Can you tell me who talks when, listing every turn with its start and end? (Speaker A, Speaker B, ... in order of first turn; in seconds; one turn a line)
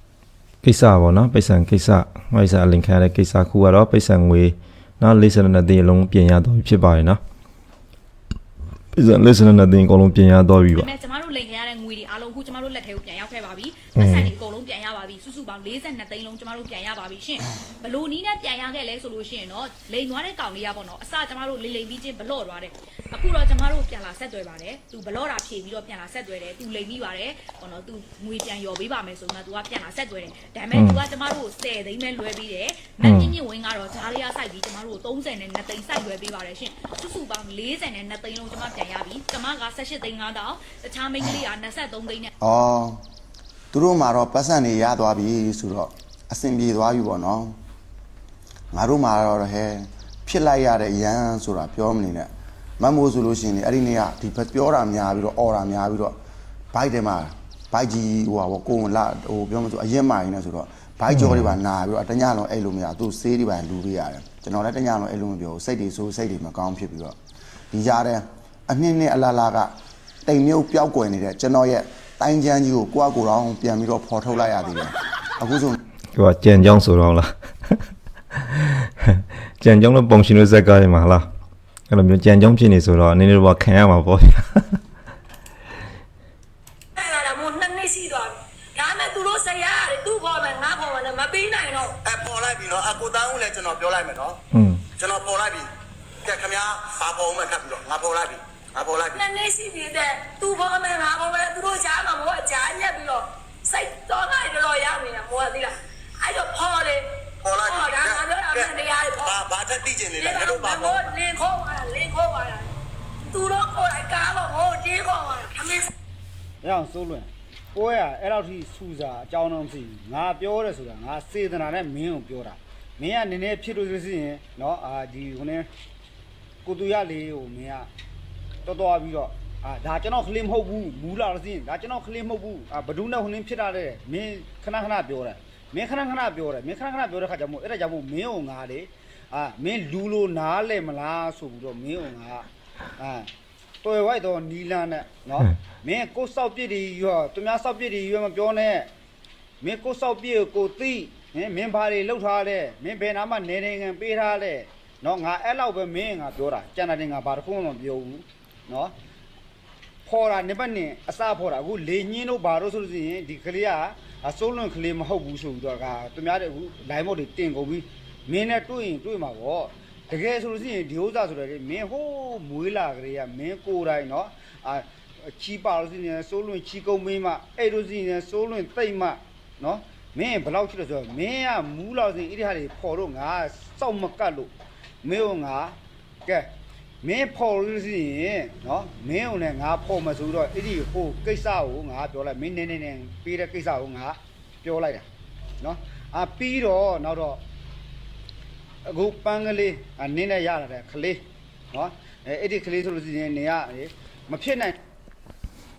Speaker A: 0.6-7.2
Speaker A: 8.9-10.9
Speaker B: 10.7-42.3
Speaker A: 14.0-14.3
Speaker A: 30.7-31.0
Speaker A: 33.0-33.3
Speaker C: 42.4-43.0
Speaker C: 43.7-47.5
Speaker C: 48.7-56.1
Speaker C: 56.7-67.2
Speaker A: 61.1-61.5
Speaker C: 67.7-69.7
Speaker C: 70.2-75.8
Speaker A: 76.1-77.8
Speaker A: 78.5-81.3
Speaker A: 81.9-84.8
Speaker D: 87.0-92.0
Speaker E: 92.0-94.4
Speaker A: 94.5-94.8
Speaker E: 95.0-95.7
Speaker E: 96.2-99.2
Speaker D: 99.1-107.1
Speaker E: 107.4-111.0
Speaker D: 107.7-109.4
Speaker D: 110.2-112.7
Speaker D: 113.3-115.9
Speaker F: 116.6-125.7
Speaker F: 126.6-127.9
Speaker F: 128.6-142.4
Speaker F: 143.0-143.3
Speaker F: 143.8-148.9
Speaker F: 149.6-158.9
Speaker F: 160.1-184.5
Speaker F: 185.0-186.5
Speaker F: 187.0-195.1
Speaker F: 195.6-197.4
Speaker F: 198.8-201.2
Speaker F: 201.7-204.8